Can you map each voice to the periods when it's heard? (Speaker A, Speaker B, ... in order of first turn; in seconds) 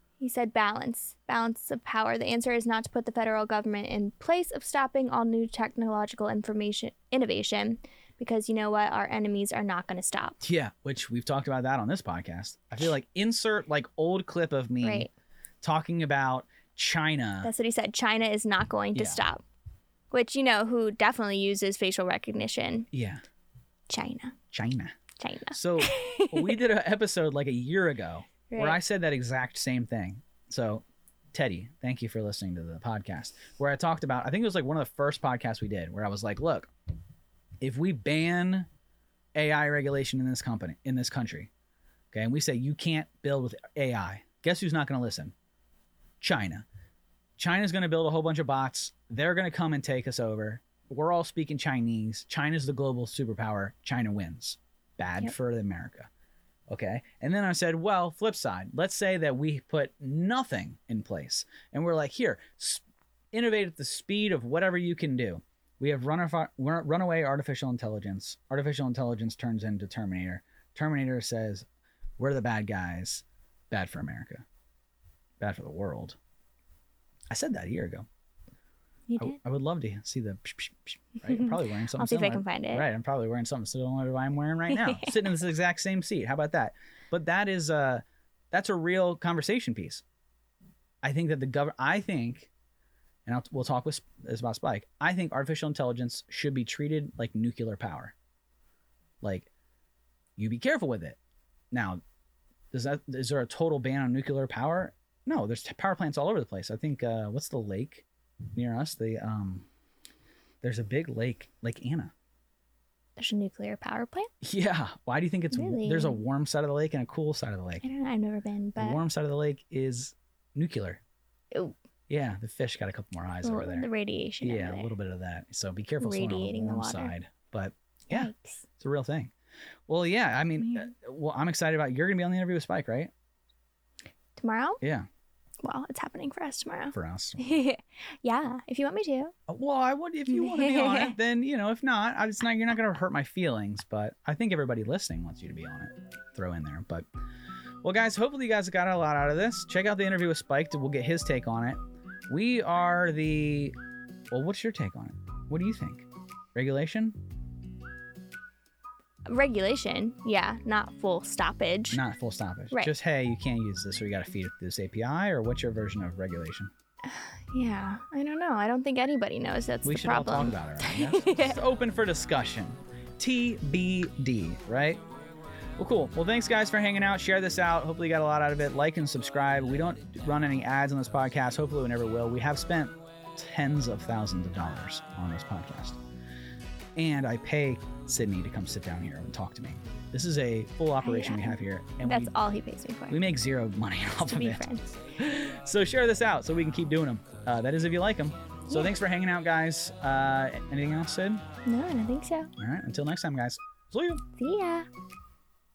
Speaker A: 0.2-10.4, 14.8-15.1, 17.4-19.4, 20.1-22.9, 23.9-24.4, 25.2-26.6, 28.5-28.8, 79.1-79.4, 81.3-82.9, 84.7-85.2, 113.2-114.3, 115.5-116.2, 117.8-119.0, 123.4-125.0, 126.0-127.1, 128.1-128.6, 134.4-134.8, 135.6-139.3, 140.3-141.2, 159.3-162.0, 167.1-171.6, 191.0-193.2, 194.2-194.9, 198.7-198.9, 201.7-202.5, 204.4-204.9
Speaker B: 10.4-15.1, 15.6-17.5, 18.9-19.2, 22.9-23.2, 24.5-25.0, 25.5-36.7, 37.6-38.7, 39.4-41.5, 42.1-45.3, 46.2-46.7, 47.4-56.1, 56.7-71.7, 72.2-74.5, 75.4-76.2, 77.3-78.1, 79.2-90.0, 91.0-92.5, 93.3-98.2, 99.2-99.5, 100.4-101.2, 101.7-102.0, 102.7-109.7, 110.6-112.1, 114.4-117.8, 118.8-121.0, 122.1-123.9, 124.4-129.3, 129.9-133.1, 136.9-137.4, 139.5-147.1, 147.8-153.8, 154.3-157.2, 161.9-166.7, 169.8-175.0, 175.8-186.0, 187.0-192.3, 193.1-194.7, 195.2-201.4, 202.6-204.2